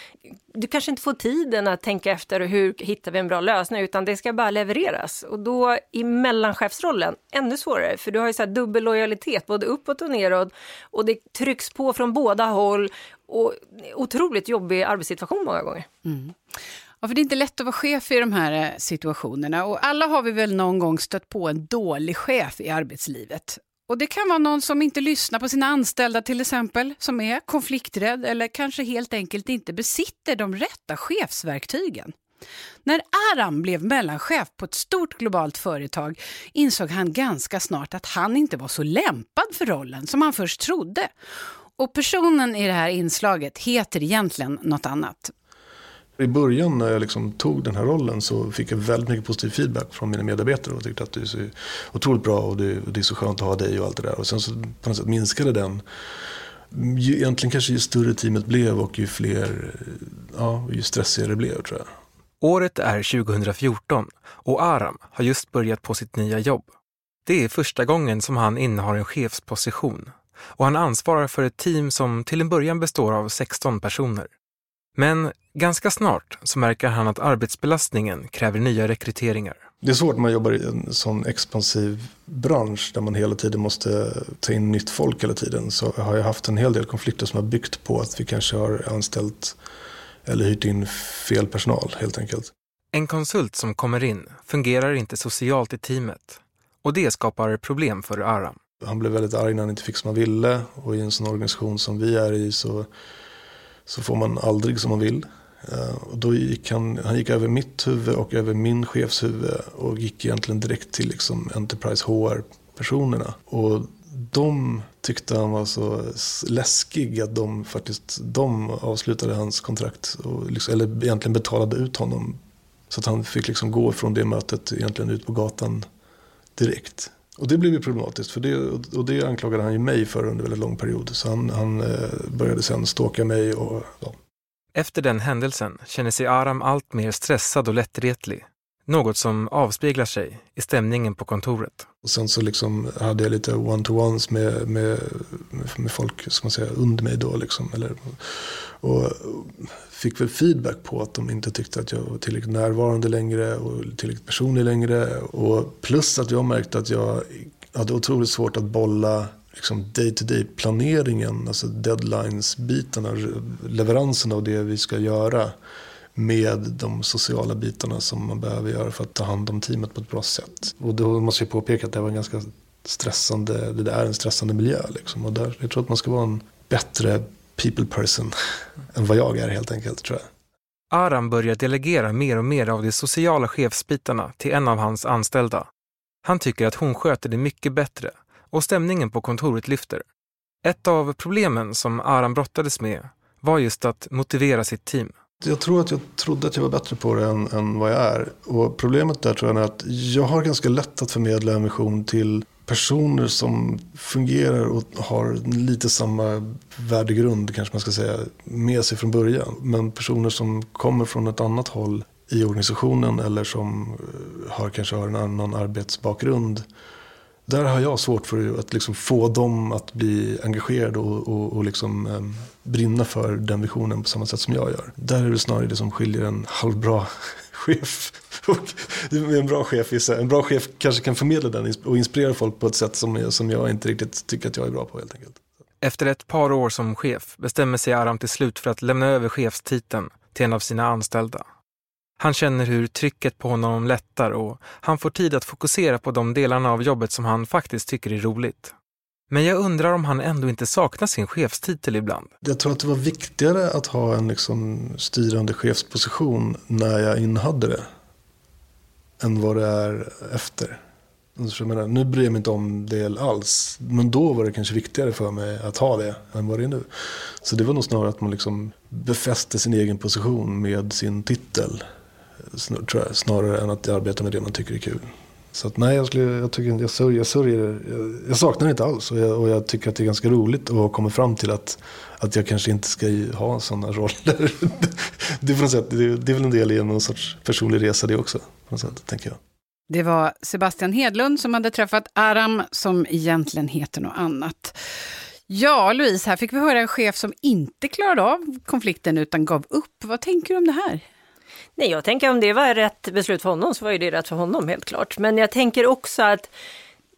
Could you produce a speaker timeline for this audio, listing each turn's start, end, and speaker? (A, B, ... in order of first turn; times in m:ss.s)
0:00.5-0:15.9 A
0:16.0-0:32.1 B
0:32.8-0:41.1 B
0:41.8-0:45.3 B
0:46.2-0:55.8 C
0:56.7-1:01.9 C
1:02.4-1:06.7 D
1:07.2-1:14.3 D
1:14.9-1:19.6 D
1:19.8-1:29.6 C
1:30.2-1:32.5 C
1:32.9-1:38.6 D
1:38.8-1:42.9 C
1:43.9-2:02.4 C
2:02.9-2:05.8 C
2:06.6-2:14.2 C
2:14.7-2:21.9 D
2:22.0-2:45.5 C
2:46.1-2:58.3 C
2:58.9-3:00.2 C
3:00.9-3:05.7 D
3:06.2-3:10.0 D
3:10.6-3:15.1 D
3:15.4-3:36.6 C
3:37.5-3:55.4 C
3:55.8-4:01.4 D
4:02.2-4:08.7 D
4:09.3-4:12.3 D
4:12.4-4:17.8 C
4:19.2-4:20.8 C
4:21.4-4:26.9 C
4:27.4-4:31.8 C
4:32.5-4:49.4 C
4:49.9-4:54.8 B
4:55.5-5:01.0 B
5:01.8-5:06.5 A